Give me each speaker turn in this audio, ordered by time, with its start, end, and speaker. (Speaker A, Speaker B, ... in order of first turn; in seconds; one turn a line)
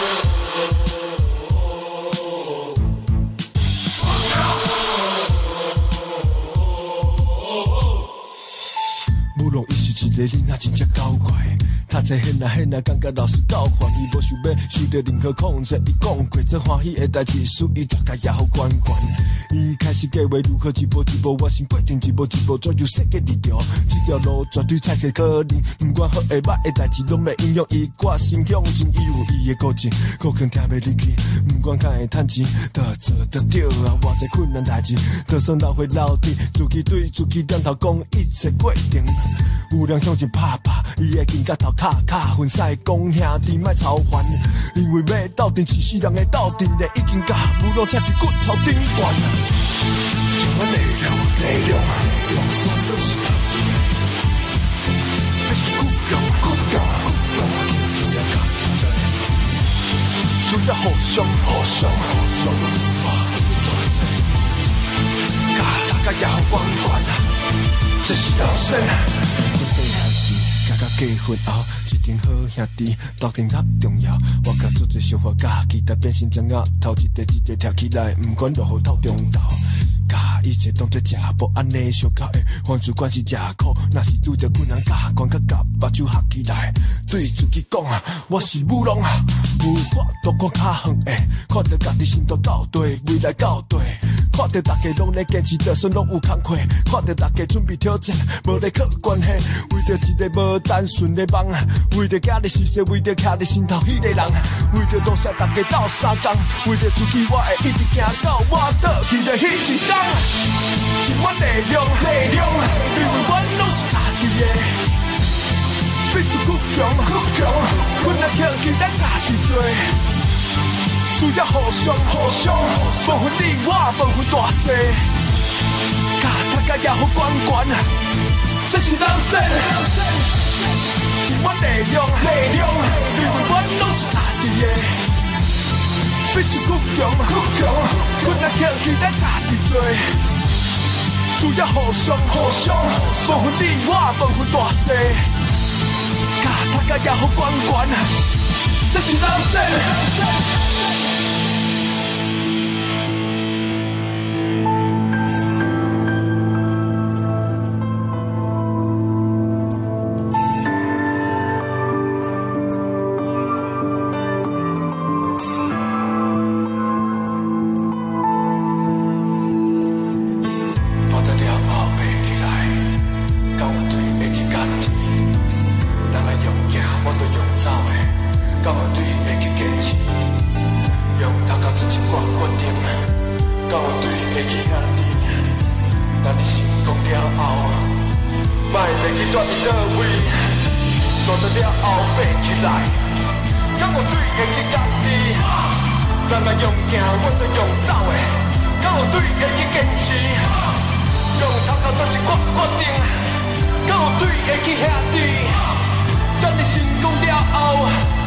Speaker A: 9.3-49.5
Speaker A: 50.3-53.9
Speaker A: 55.5-59.3
Speaker A: 60.4-64.4
Speaker A: 65.5-67.3
Speaker A: 68.0-110.4
Speaker A: 111.0-114.9
Speaker A: 116.1-120.0
Speaker A: 121.1-125.2
Speaker A: 126.2-127.9
Speaker A: 128.6-130.3
Speaker A: 131.2-135.1
Speaker A: 136.3-140.2
Speaker A: 141.3-145.3
Speaker A: 146.4-148.2
Speaker A: 148.8-150.2
Speaker A: 171.1-173.0
Speaker A: 173.5-175.4
Speaker A: 176.1-180.4
Speaker A: 181.1-185.6
Speaker A: 186.2-188.1
Speaker A: 188.7-190.7
Speaker A: 191.2-193.1
Speaker A: 193.8-200.8
Speaker A: 201.3-208.0